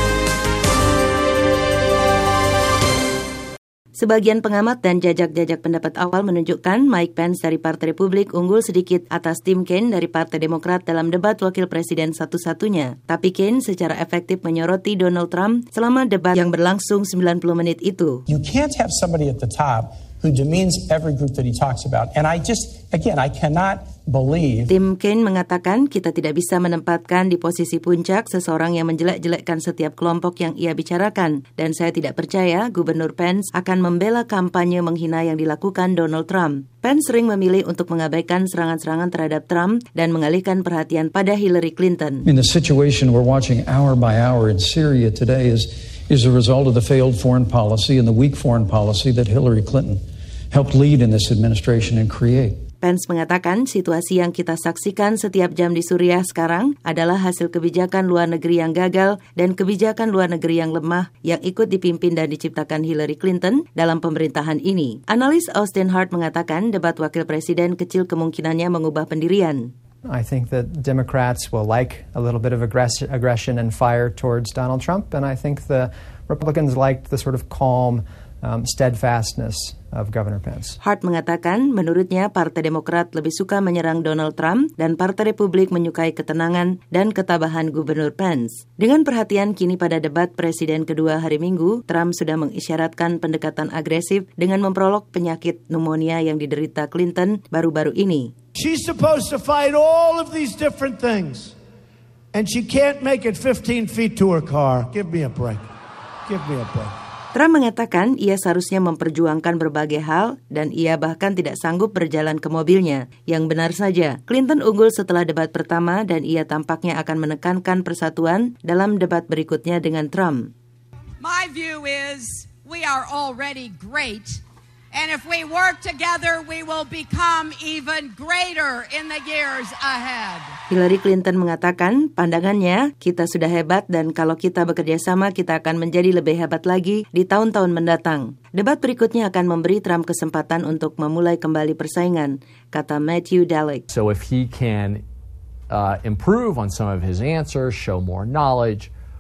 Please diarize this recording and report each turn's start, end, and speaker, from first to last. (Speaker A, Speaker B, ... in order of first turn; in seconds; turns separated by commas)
Speaker A: 3.9-18.2, Speaker B: 18.3-24.7, Speaker A: 24.7-42.2, Speaker C: 42.2-52.6, Speaker A: 52.8-69.7, Speaker D: 70.0-80.8, Speaker A: 80.8-98.3, Speaker E: 98.5-101.5, Speaker E: 102.3-105.7, Speaker E: 106.3-106.9, Speaker A: 107.3-120.5, Speaker F: 121.2-124.4, Speaker F: 124.9-130.5, Speaker A: 130.7-143.8, Speaker G: 143.9-145.0, Speaker G: 145.7-148.9